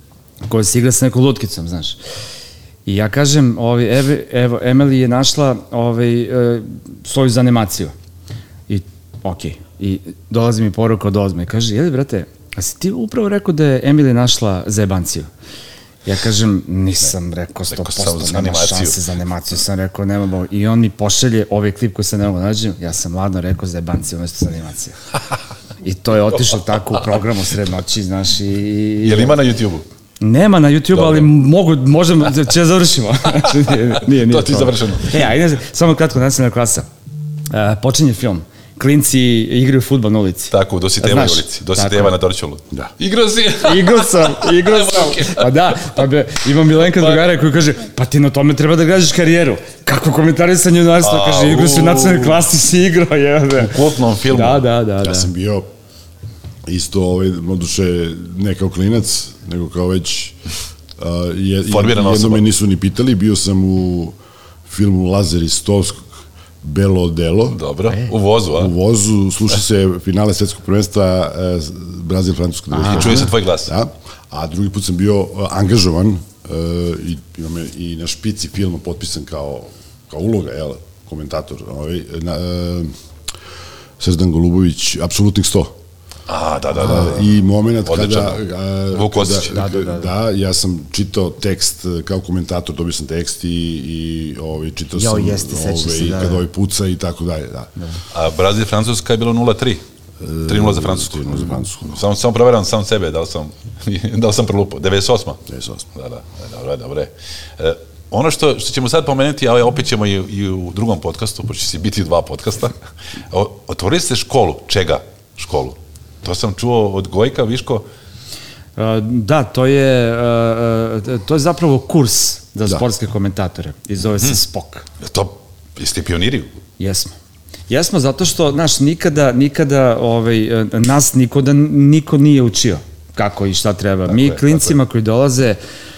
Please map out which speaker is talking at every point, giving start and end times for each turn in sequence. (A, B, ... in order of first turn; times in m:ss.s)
0:00.4-0:02.0 A
0:02.8-0:07.9 A
0:08.7-0:15.3 A
0:16.0-0:25.0 A
0:17.7-0:19.0 B
0:25.8-0:29.4 A
0:29.0-0:29.8 B
0:30.2-0:36.9 A
0:30.9-0:31.3 B
0:34.1-0:35.3 B
0:37.5-0:42.1 A
0:40.5-0:45.7 B
0:43.6-0:55.3 A
0:46.8-0:47.2 B
0:51.0-0:52.4 B
0:53.5-0:54.7 B
0:55.0-0:55.7 C
0:56.6-1:00.4 C
1:01.0-1:06.1 C
1:01.7-1:02.4 B
1:06.6-1:07.6 C
1:07.5-1:08.7 B
1:08.5-1:22.9 C
1:12.8-1:13.7 B
1:24.0-1:25.7 C
1:26.3-1:28.4 B
1:26.8-1:37.7 C
1:28.9-1:29.6 B
1:29.5-1:30.1 A
1:34.9-1:36.4 A
1:38.1-1:39.8 B
1:40.2-1:42.0 C
1:40.4-1:45.4 B
1:45.5-1:45.8 C
1:45.9-1:52.8 B
1:53.3-1:57.8 B
1:58.8-2:04.8 A
2:05.0-2:06.5 B
2:06.8-2:07.1 A
2:07.7-2:15.6 A
2:14.1-2:14.7 B